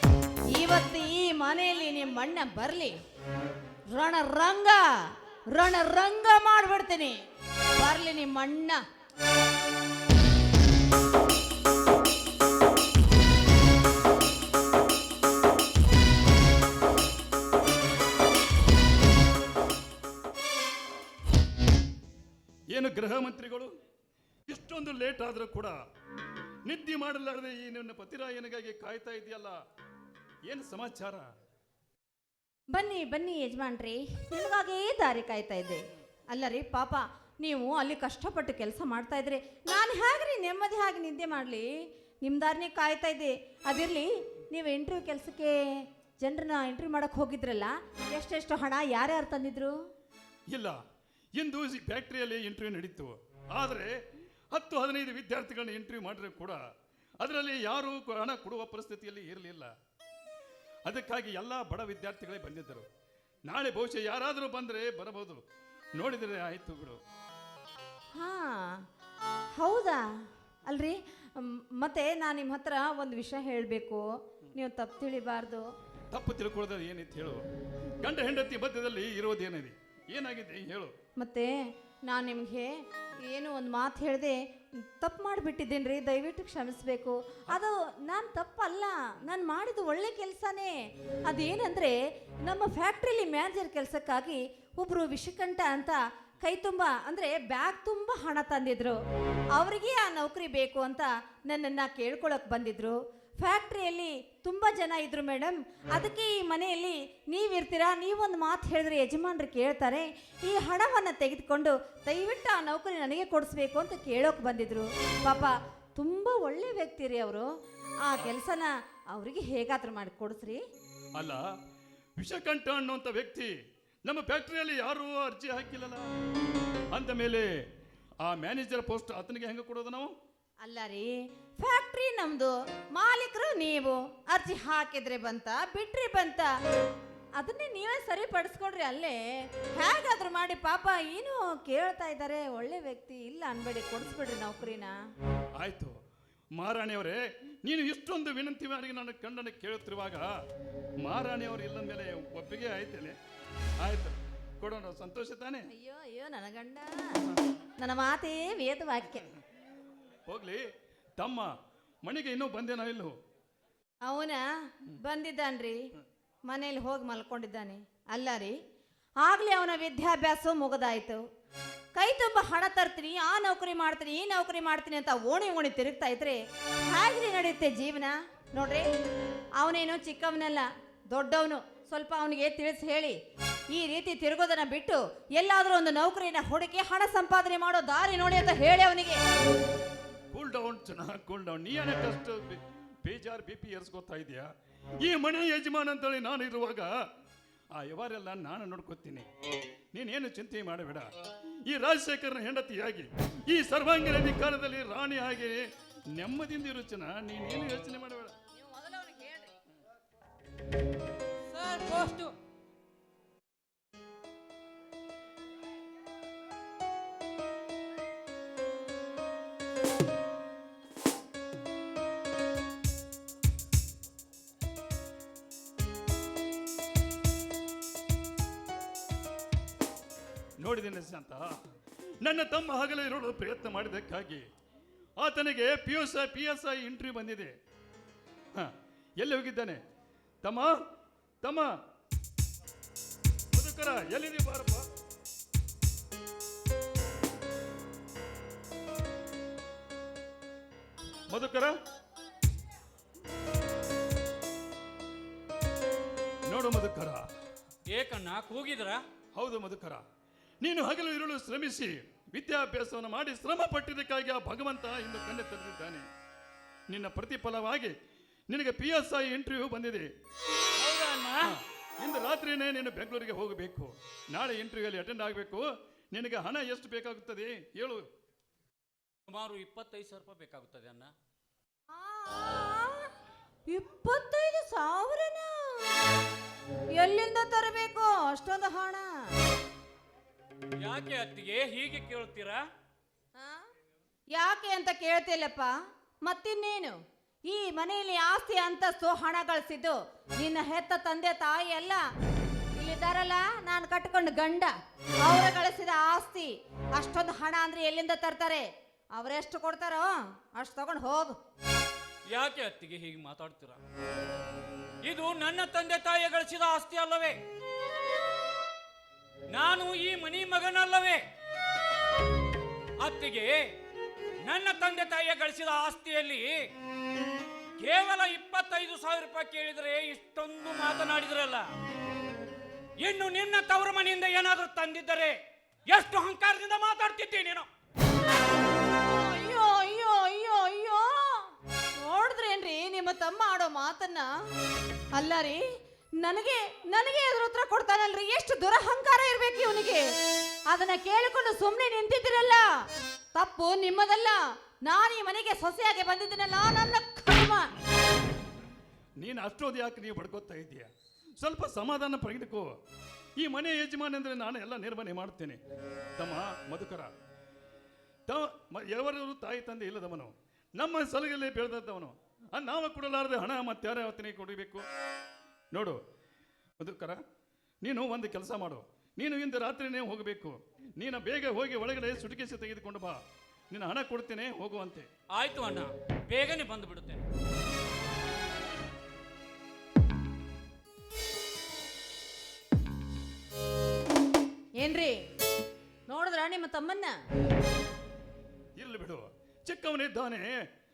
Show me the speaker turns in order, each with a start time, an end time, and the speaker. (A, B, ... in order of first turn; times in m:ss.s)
0:00.5-0:03.0 A
0:03.9-0:04.9 A
0:05.5-0:07.2 A
0:07.8-0:08.8 A
0:22.7-0:23.7 B
0:24.5-0:25.8 B
0:26.7-0:29.6 B
0:30.5-0:31.3 B
0:32.7-0:41.7 A
0:42.2-0:49.8 A
0:50.5-0:50.8 B
0:51.4-0:54.0 B
0:54.5-0:56.6 B
0:57.2-0:59.7 B
1:00.9-1:02.9 B
1:03.5-1:05.4 B
1:06.0-1:07.0 B
1:08.2-1:08.8 A
1:09.6-1:10.1 A
1:10.7-1:15.7 A
1:16.1-1:17.4 B
1:18.0-1:20.9 B
1:21.2-1:30.8 A
1:31.3-1:39.0 A
1:39.6-1:57.5 A
1:58.0-2:00.6 A
2:01.2-2:01.5 B
2:02.2-2:03.5 B
2:04.1-2:06.1 B
2:06.9-2:07.5 B
2:08.2-2:10.1 B
2:10.6-2:16.5 A
2:17.4-2:19.2 A
2:19.8-2:25.0 A
2:25.6-2:26.0 B
2:26.6-2:30.3 B
2:31.0-2:33.2 B
2:33.8-2:35.7 B
2:35.7-2:37.2 A
2:37.8-2:39.3 A
2:40.3-2:41.5 B
2:42.0-2:43.2 B
2:44.1-2:45.8 A
2:46.5-2:48.6 A
2:49.2-2:51.2 A
2:52.0-2:58.9 A
2:59.6-3:03.2 A
3:03.7-3:09.2 A
3:10.3-3:14.5 B
3:15.0-3:16.9 B
3:17.8-3:19.3 B
3:19.9-3:21.1 B
3:21.7-3:28.4 B
3:28.6-3:29.6 A
3:31.5-3:32.3 C
3:50.6-3:51.6 B
3:52.2-3:54.5 B
3:55.2-3:57.5 B
3:58.6-3:59.8 B
4:00.4-4:00.8 B
4:01.4-4:01.7 B
4:03.5-4:04.9 B
4:11.3-4:11.7 B
4:16.5-4:17.3 B
4:17.9-4:19.0 C
4:19.4-4:20.0 B
4:20.6-4:26.0 B
4:26.9-4:28.0 B
4:28.5-4:30.1 B
4:30.8-4:31.6 C
4:31.4-4:38.1 B
4:39.3-4:41.1 C
4:41.9-4:43.1 A
4:43.7-4:45.9 A
4:46.9-4:49.3 A
4:50.8-4:52.6 C
4:53.4-4:53.7 A
4:54.3-4:55.7 A
4:56.3-5:02.0 A
5:02.8-5:11.4 A
5:12.3-5:13.8 C
5:15.0-5:17.4 C
5:19.5-5:21.2 C
5:23.0-5:23.7 C
5:24.4-5:26.7 C
5:27.8-5:31.7 C
5:33.0-5:35.4 C
5:35.9-5:37.7 C
5:39.0-5:44.3 A
5:45.2-5:45.6 A
5:46.2-5:50.1 A
5:50.7-5:52.8 A
5:53.4-5:57.7 A
5:59.2-6:02.7 B
6:03.4-6:05.6 B
6:06.2-6:07.1 B
6:08.3-6:14.9 B
6:15.7-6:16.0 B
6:16.8-6:17.2 B
6:17.8-6:25.1 B
6:25.3-6:27.2 C
6:34.8-6:35.2 A
6:36.1-6:37.2 A
6:38.8-6:40.6 B